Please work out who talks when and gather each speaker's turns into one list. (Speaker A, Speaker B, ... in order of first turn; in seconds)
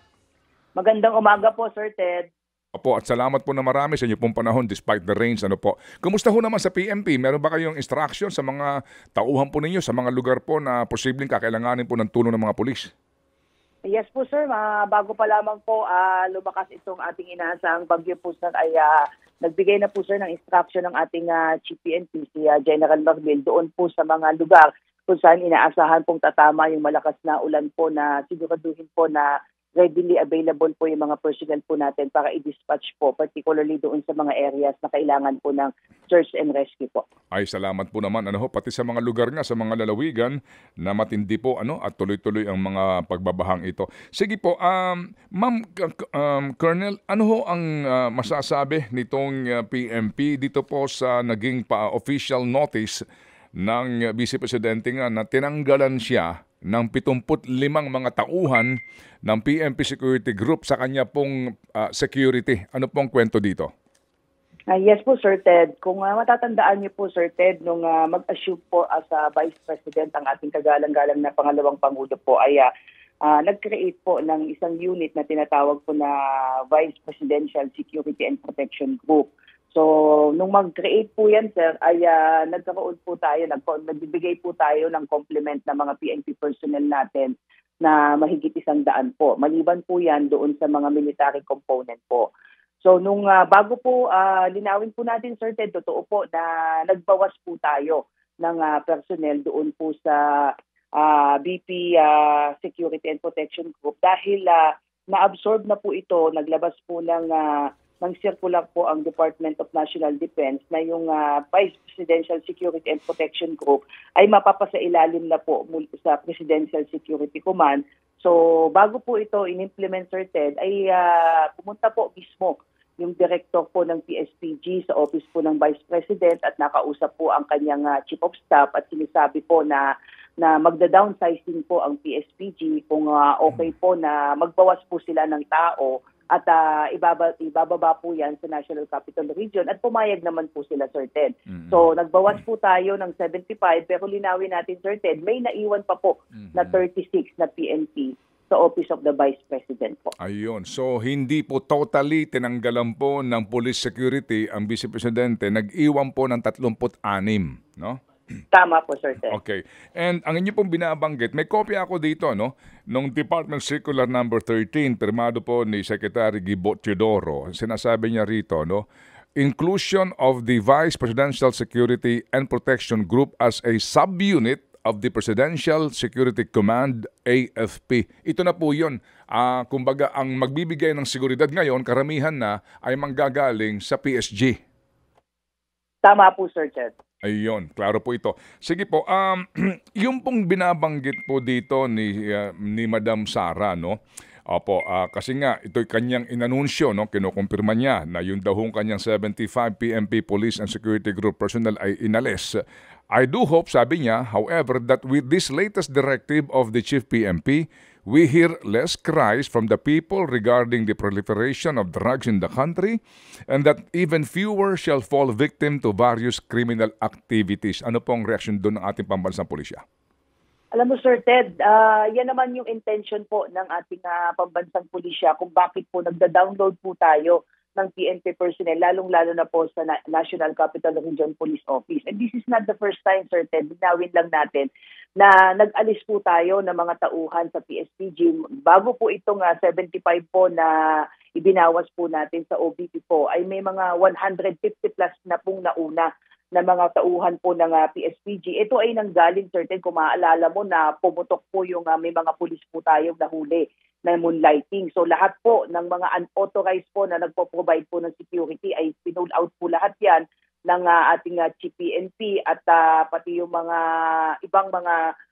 Speaker A: 0.8-2.2, 13.9-37.0, 64.7-72.7, 73.2-76.1, 76.7-92.3, 92.8-100.2, 101.0-129.8, 130.4-150.1, 158.5-159.4, 186.0-186.9, 220.7-240.7, 241.3-263.8, 264.4-265.0
Speaker B: 2.7-12.9, 37.3-53.0, 53.6-63.7, 141.5-141.8, 150.2-158.0, 159.3-168.8, 169.4-184.6, 187.2-194.0, 194.5-202.6, 203.1-219.8